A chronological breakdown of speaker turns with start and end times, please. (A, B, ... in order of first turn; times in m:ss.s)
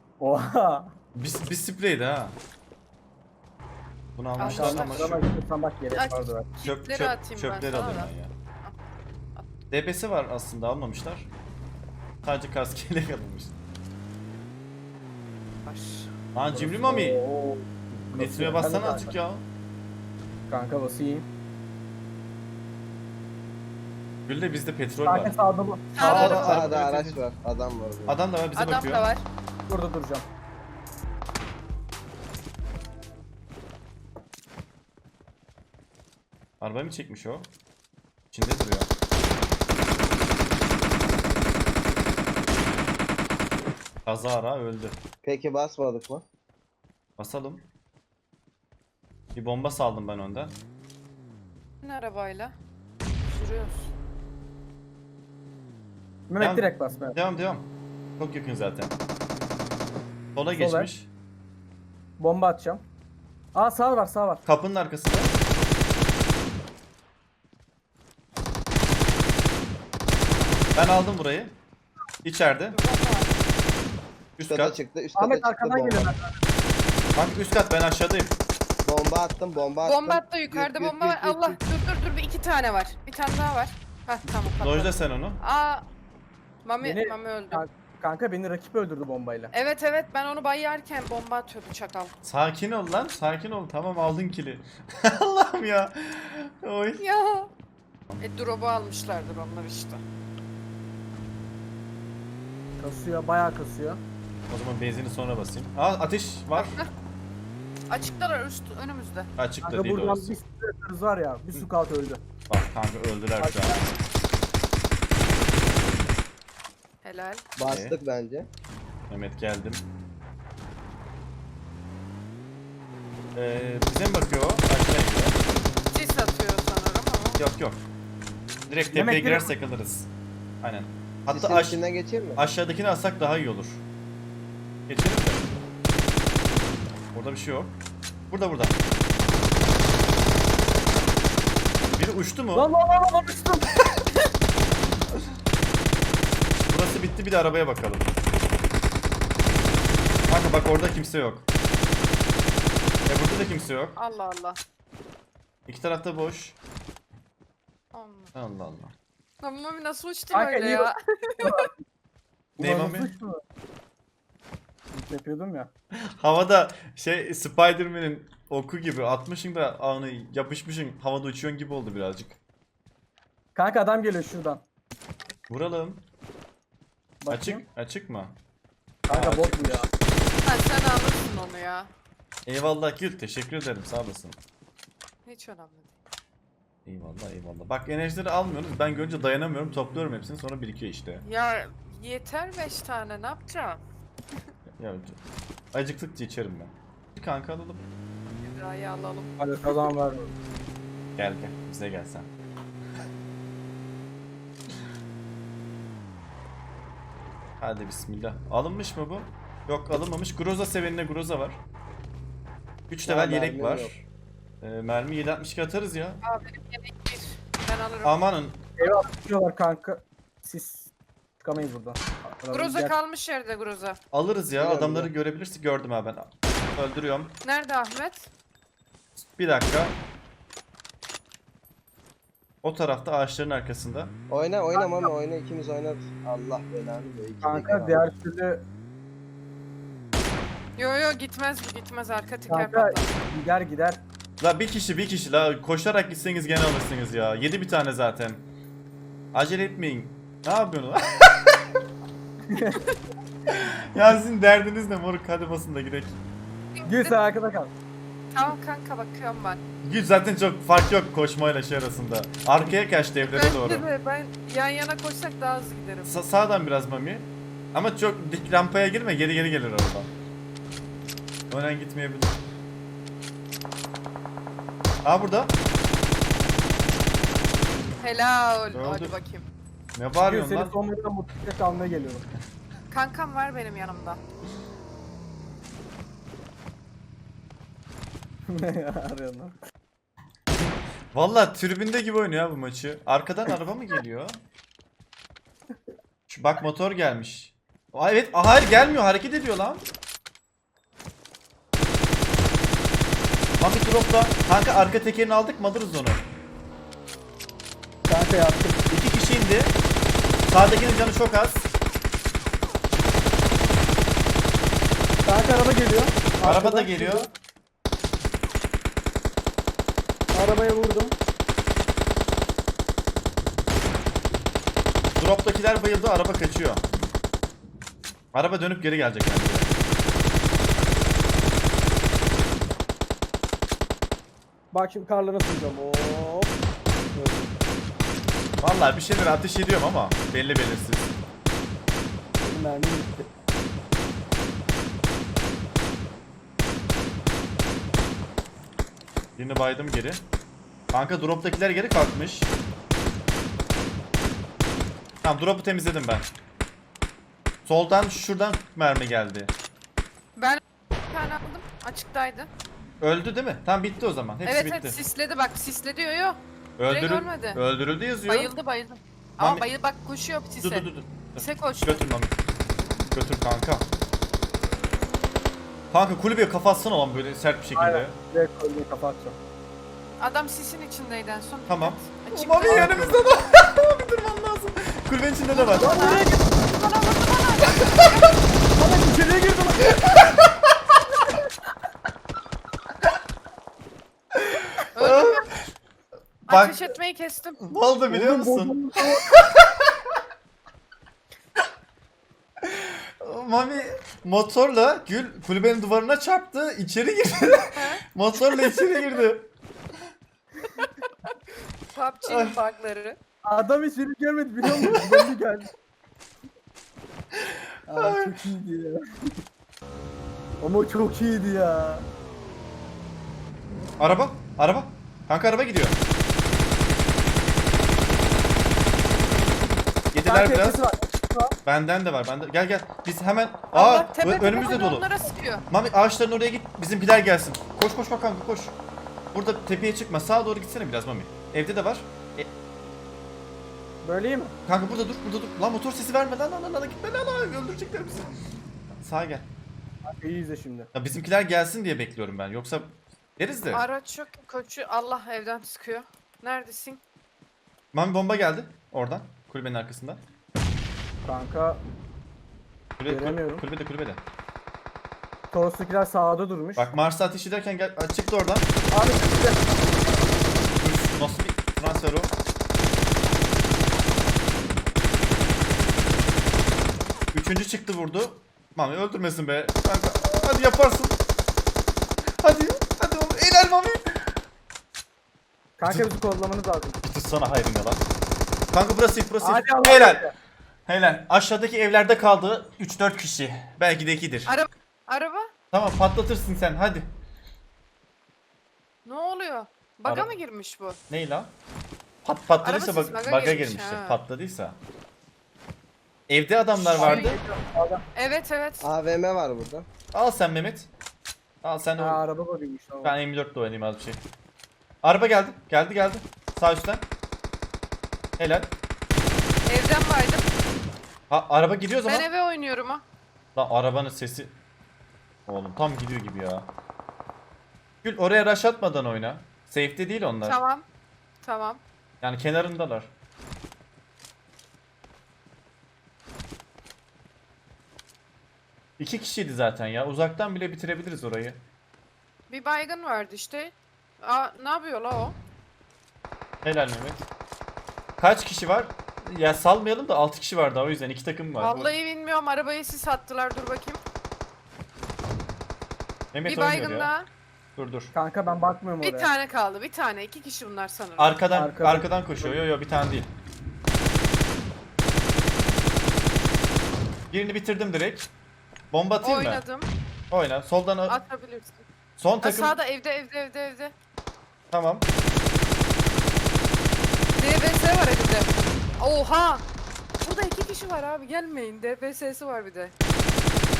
0:00.2-0:00.9 A
0:01.1-0:02.4 B
0:04.2-0:05.2 B
0:04.4-0:05.2 C
0:04.4-0:06.5 A
0:05.9-0:08.1 C
0:06.6-0:08.3 B
0:09.7-0:11.3 B
0:12.2-0:13.6 B
0:15.6-0:16.1 C
0:16.3-0:17.2 B
0:16.5-0:19.1 A
0:17.9-0:19.4 B
0:20.5-0:21.3 A
0:24.3-0:25.4 B
0:25.0-0:26.0 A
0:25.9-0:26.7 C
0:26.0-0:27.2 B
0:26.0-0:28.2 D
0:28.1-0:29.1 B
0:28.5-0:29.2 C
0:29.7-0:30.3 A
0:36.6-0:37.5 B
0:38.3-0:38.9 B
0:44.0-0:45.0 B
0:45.2-0:46.2 D
0:47.2-0:47.6 B
0:49.3-0:50.6 B
0:51.8-0:52.5 C
0:53.2-0:53.9 C
0:56.3-0:57.2 A
0:56.4-0:59.0 B
1:00.3-1:01.1 B
1:00.5-1:00.9 A
1:02.2-1:02.8 A
1:03.5-1:04.4 A
1:04.4-1:05.3 B
1:10.8-1:11.6 B
1:12.2-1:12.8 B
1:12.7-1:13.3 C
1:14.4-1:14.8 B
1:14.4-1:16.1 D
1:15.2-1:16.4 A
1:17.2-1:18.4 B
1:18.8-1:21.6 D
1:19.8-1:25.8 C
1:24.6-1:25.4 B
1:26.6-1:27.6 C
1:26.8-1:29.5 A
1:29.5-1:32.1 C
1:32.2-1:37.0 B
1:37.0-1:37.5 C
1:38.2-1:40.0 C
1:42.8-1:44.0 A
1:44.5-1:46.8 B
1:46.6-1:46.9 C
1:47.9-1:49.3 C
1:49.4-1:50.3 B
1:49.6-1:52.2 A
1:52.5-1:53.8 B
1:53.4-1:53.8 A
1:57.0-1:57.4 C
1:57.6-1:58.5 D
1:57.6-1:58.0 B
1:59.1-1:59.8 B
2:03.3-2:05.4 B
2:05.9-2:07.4 C
2:07.4-2:07.8 B
2:08.7-2:10.1 B
2:08.9-2:09.5 A
2:10.6-2:11.8 B
2:11.3-2:12.4 D
2:12.4-2:13.8 B
2:14.9-2:15.5 B
2:17.1-2:17.8 B
2:18.3-2:18.8 B
2:22.0-2:22.7 B
2:22.5-2:23.7 A
2:26.7-2:28.1 B
2:30.3-2:31.4 B
2:33.0-2:34.0 B
2:34.0-2:34.6 C
2:35.7-2:36.6 B
2:37.9-2:38.3 C
2:38.3-2:38.9 B
2:39.4-2:41.7 C
2:40.3-2:40.9 A
2:41.4-2:41.8 A
2:42.6-2:43.1 B
2:42.6-2:43.4 A
2:44.9-2:45.7 A
2:45.9-2:52.4 B
2:53.5-2:54.6 A
2:55.5-2:56.0 B
2:57.2-2:57.6 A
2:57.3-2:58.4 B
2:59.1-2:59.9 A
2:59.1-2:59.9 B
3:00.4-3:01.9 C
3:02.4-3:04.4 B
3:05.2-3:05.9 C
3:06.8-3:11.2 B
3:11.2-3:13.8 C
3:14.8-3:15.2 B
3:15.7-3:17.8 B
3:18.4-3:19.4 C
3:19.4-3:20.3 A
3:21.2-3:22.3 B
3:27.6-3:31.6 B
3:32.9-3:34.0 B
3:33.0-3:33.9 D
3:34.6-3:36.2 B
3:36.2-3:38.2 C
3:38.0-3:38.6 B
3:38.8-3:42.9 A
3:42.5-3:44.0 C
3:44.1-3:47.4 B
3:44.6-3:45.1 D
3:47.4-3:48.3 C
3:49.2-3:50.0 B
3:52.6-3:54.2 B
3:54.3-3:58.1 D
3:54.7-3:55.1 A
3:57.4-3:58.6 A
4:00.8-4:03.0 C
4:02.5-4:04.0 A
4:04.4-4:08.4 B
4:09.3-4:11.6 B
4:12.5-4:12.8 A
4:13.5-4:16.2 B
4:16.8-4:17.2 C
4:16.8-4:17.7 A
4:18.3-4:19.6 C
4:19.8-4:23.9 B
4:23.2-4:26.1 C
4:26.0-4:30.1 B
4:31.5-4:32.4 B
4:35.0-4:35.6 B
4:38.0-4:39.4 C
4:38.7-4:39.1 B
4:40.0-4:40.8 B
4:40.2-4:42.3 A
4:42.9-4:44.2 C
4:48.5-4:49.6 A
4:50.5-4:54.4 B
4:56.3-4:59.8 B
5:03.6-5:06.2 B
5:08.0-5:08.8 A
5:08.9-5:09.8 B
5:10.5-5:11.6 B
5:15.2-5:17.3 A
5:16.4-5:17.3 B
5:20.3-5:21.2 A
5:25.2-5:26.8 B
5:28.3-5:29.7 B
5:34.7-5:36.5 A
5:37.2-5:37.5 A
5:38.6-5:41.1 B
5:42.4-5:43.3 A
5:49.4-5:50.2 B
5:50.9-5:52.5 B
5:55.2-5:56.3 B
5:57.6-5:59.5 B
6:00.4-6:02.5 C
6:03.0-6:05.0 B
6:04.4-6:07.6 C
6:06.8-6:08.5 B
6:08.3-6:12.0 C
6:09.4-6:09.6 B
6:10.6-6:12.4 B
6:13.1-6:13.9 B
6:15.9-6:18.2 B
6:17.8-6:19.4 A
6:20.2-6:23.1 C
6:21.7-6:25.9 B
6:22.6-6:23.2 A
6:25.5-6:28.4 C
6:25.8-6:26.6 A
6:28.8-6:30.1 A
6:29.9-6:30.5 B
6:34.3-6:35.7 B
6:35.0-6:35.5 C
6:36.5-6:36.8 B
6:36.5-6:37.6 C
6:37.6-6:39.9 B
6:38.1-6:39.3 A
6:42.6-6:49.5 B
6:47.8-6:48.0 C
6:51.9-6:53.2 C
6:52.3-6:52.6 B
6:53.4-6:55.7 A
6:54.8-6:55.2 B
6:57.3-6:58.3 B
6:57.9-6:59.3 A
7:00.6-7:02.0 A
7:04.0-7:06.0 B
7:10.1-7:10.8 B
7:10.2-7:11.5 A
7:11.6-7:15.0 B
7:13.7-7:15.6 C
7:15.7-7:18.8 B
7:19.3-7:22.5 B
7:24.0-7:24.5 A
7:24.6-7:28.3 B
7:29.0-7:29.5 B
7:30.0-7:30.9 A
7:30.9-7:33.8 B
7:33.7-7:37.0 C
7:37.9-7:40.2 B
7:41.2-7:41.8 A
7:43.0-7:44.2 B
7:43.0-7:43.6 A
7:45.5-7:46.9 A
7:46.8-7:48.7 B
7:48.9-7:49.6 A
7:50.8-7:52.3 B
7:57.3-8:01.2 B
8:02.4-8:04.3 B
8:05.8-8:07.0 A
8:05.8-8:06.1 B
8:07.0-8:08.0 B
8:08.7-8:10.3 B
8:09.4-8:10.3 A
8:10.8-8:14.5 B
8:14.5-8:15.5 C
8:15.7-8:17.1 B
8:19.0-8:21.0 C
8:21.1-8:21.5 B
8:22.2-8:24.8 B
8:22.6-8:24.2 C
8:26.3-8:27.4 B
8:26.8-8:27.4 C
8:27.0-8:28.0 A
8:28.1-8:28.8 C
8:28.8-8:29.9 D
8:30.1-8:30.9 B
8:31.6-8:32.2 B
8:32.0-8:33.2 A
8:33.0-8:34.2 B
8:35.0-8:37.1 B
8:38.4-8:38.8 B
8:39.6-8:40.5 C
8:41.3-8:42.3 B
8:42.1-8:43.0 C
8:43.5-8:44.6 B
8:45.5-8:46.7 B
8:48.0-8:50.6 B
8:50.4-8:50.8 C
8:51.4-8:51.8 C
8:52.2-8:53.1 B
8:59.0-9:01.6 B
9:02.5-9:05.4 C
9:06.6-9:07.3 B
9:08.2-9:11.9 B
9:11.6-9:14.0 C
9:16.3-9:17.1 B
9:16.5-9:17.3 C
9:17.8-9:18.1 B
9:18.1-9:19.3 A
9:19.0-9:21.4 C
9:21.2-9:23.3 B
9:21.5-9:22.6 A
9:27.3-9:28.3 B
9:28.9-9:29.6 B
9:29.2-9:29.9 C
9:30.3-9:31.2 B
9:31.1-9:31.8 C
9:32.2-9:32.8 B
9:32.4-9:33.9 C
9:34.7-9:35.1 B
9:37.4-9:39.6 C
9:40.2-9:42.9 C